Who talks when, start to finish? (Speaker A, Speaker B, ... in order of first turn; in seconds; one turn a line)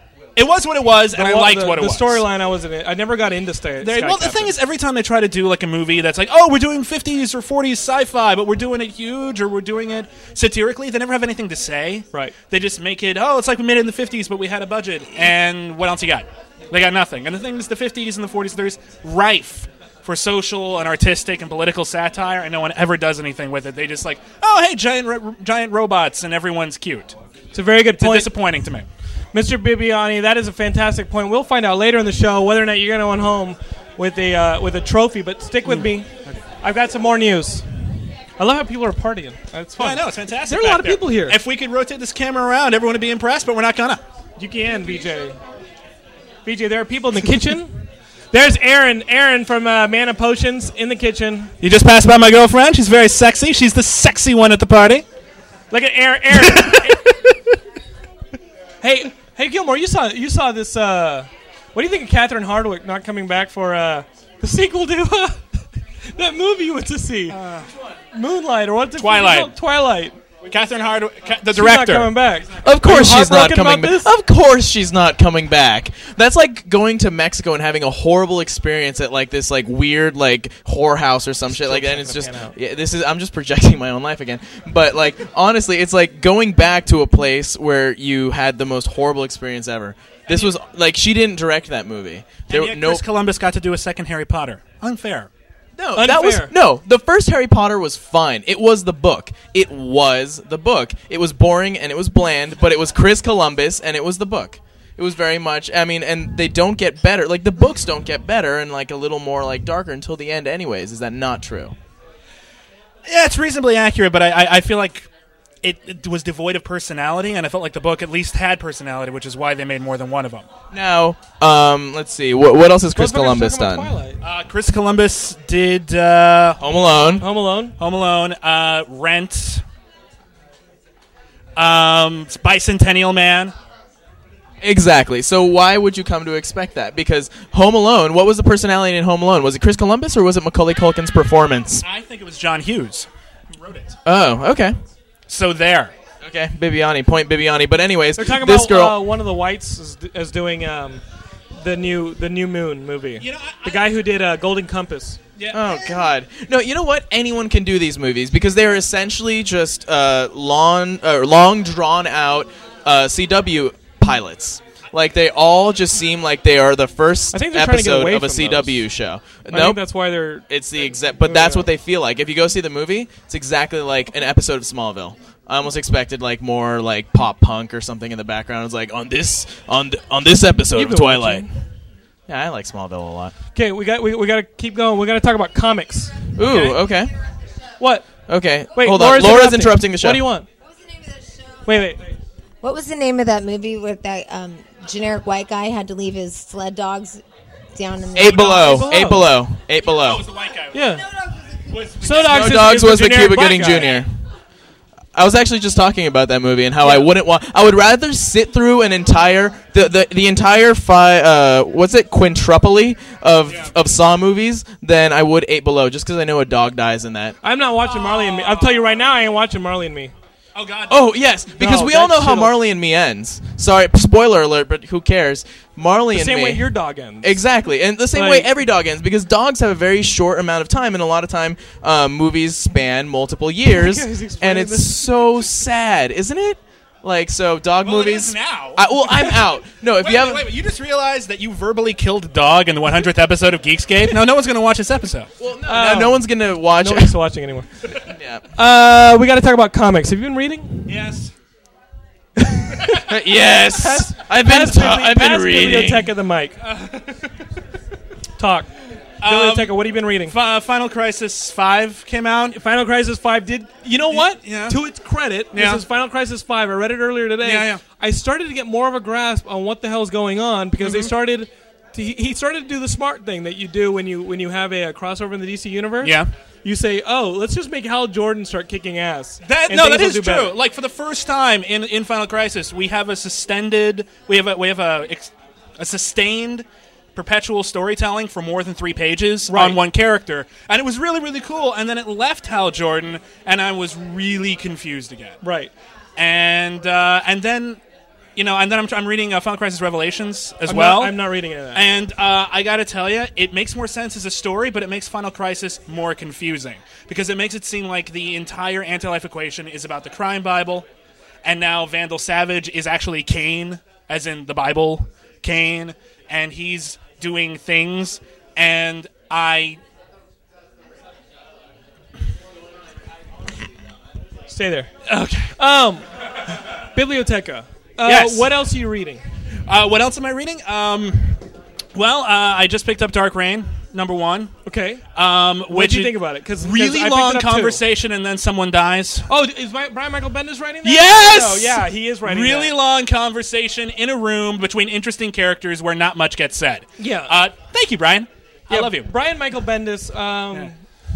Speaker A: 0.3-2.2
Speaker B: 1.1-4.5
Speaker A: 3.8-27.1
Speaker B: 27.5-28.4
Speaker A: 28.0-28.9
Speaker B: 29.3-37.6
Speaker B: 38.4-41.4
Speaker A: 39.8-44.0
Speaker B: 44.4-45.4
Speaker B: 46.4-51.5
Speaker A: 51.6-55.0
Speaker B: 55.7-57.1
Speaker B: 58.8-65.4
Speaker B: 66.0-67.4
Speaker A: 67.3-67.7
Speaker B: 68.1-70.2
Speaker A: 69.0-69.5
Speaker A: 70.5-72.1
Speaker B: 71.5-74.1
Speaker C: 72.6-93.0
Speaker B: 81.5-82.5
Speaker A: 90.3-90.5
Speaker A: 92.5-95.3
Speaker C: 95.8-111.7
Speaker B: 96.0-96.5
Speaker A: 113.0-115.1
Speaker A: 115.6-120.5
Speaker C: 120.7-123.9
Speaker B: 122.9-124.2
Speaker A: 124.2-126.6
Speaker C: 126.6-127.2
Speaker B: 127.2-127.8
Speaker A: 127.8-129.6
Speaker A: 131.6-133.5
Speaker C: 134.6-141.8
Speaker A: 141.8-143.9
Speaker C: 144.1-144.8
Speaker A: 145.3-145.9
Speaker C: 146.2-149.0
Speaker B: 148.2-151.0
Speaker B: 151.6-155.2
Speaker A: 153.2-153.9
Speaker A: 155.4-155.7
Speaker C: 155.5-169.8
Speaker B: 167.3-168.8
Speaker B: 169.5-171.7
Speaker C: 170.5-181.4
Speaker B: 180.7-181.5
Speaker C: 182.3-183.3
Speaker B: 183.5-186.8
Speaker C: 186.3-187.1
Speaker B: 187.8-188.1
Speaker C: 188.3-190.3
Speaker B: 188.7-190.5
Speaker D: 190.7-191.7
Speaker B: 191.6-192.1
Speaker D: 192.6-197.2
Speaker D: 197.7-198.8
Speaker C: 198.1-200.2
Speaker B: 198.3-199.3
Speaker A: 199.8-200.9
Speaker B: 200.7-201.0
Speaker D: 201.2-201.6
Speaker A: 201.7-202.5
Speaker B: 202.0-204.0
Speaker C: 202.2-204.1
Speaker A: 203.7-203.9
Speaker C: 205.1-217.3
Speaker B: 206.8-207.1
Speaker A: 213.5-213.7
Speaker B: 217.4-220.1
Speaker A: 217.9-218.8
Speaker A: 220.5-221.2
Speaker C: 220.9-240.5
Speaker B: 221.6-222.5
Speaker B: 226.1-227.3
Speaker B: 228.1-228.5
Speaker B: 233.7-235.1
Speaker A: 237.8-239.4
Speaker A: 239.9-245.3
Speaker C: 245.4-247.1
Speaker B: 245.7-247.7
Speaker C: 248.1-248.4
Speaker B: 248.5-250.9
Speaker A: 250.9-251.3
Speaker C: 252.9-256.1
Speaker B: 253.7-256.6
Speaker A: 256.7-257.2
Speaker B: 258.4-258.7
Speaker A: 259.2-262.6
Speaker B: 259.2-260.4
Speaker B: 262.6-280.6
Speaker A: 264.1-264.8
Speaker A: 265.5-265.8
Speaker A: 267.4-267.8
Speaker A: 270.8-271.1
Speaker A: 276.0-276.3
Speaker A: 279.4-295.4
Speaker B: 289.5-289.8
Speaker B: 295.4-295.7
Speaker A: 296.2-297.8
Speaker A: 298.4-301.2
Speaker B: 300.6-301.8
Speaker A: 301.7-310.9
Speaker A: 311.4-319.8
Speaker B: 324.5-324.9
Speaker A: 325.1-325.5
Speaker B: 325.6-326.1
Speaker B: 326.7-329.2
Speaker A: 328.0-328.5
Speaker A: 329.7-331.4
Speaker A: 331.9-334.5
Speaker B: 334.6-335.0
Speaker A: 335.1-339.3
Speaker B: 335.7-337.8
Speaker B: 339.3-342.8
Speaker A: 340.8-349.1
Speaker B: 347.0-347.4
Speaker B: 348.7-350.8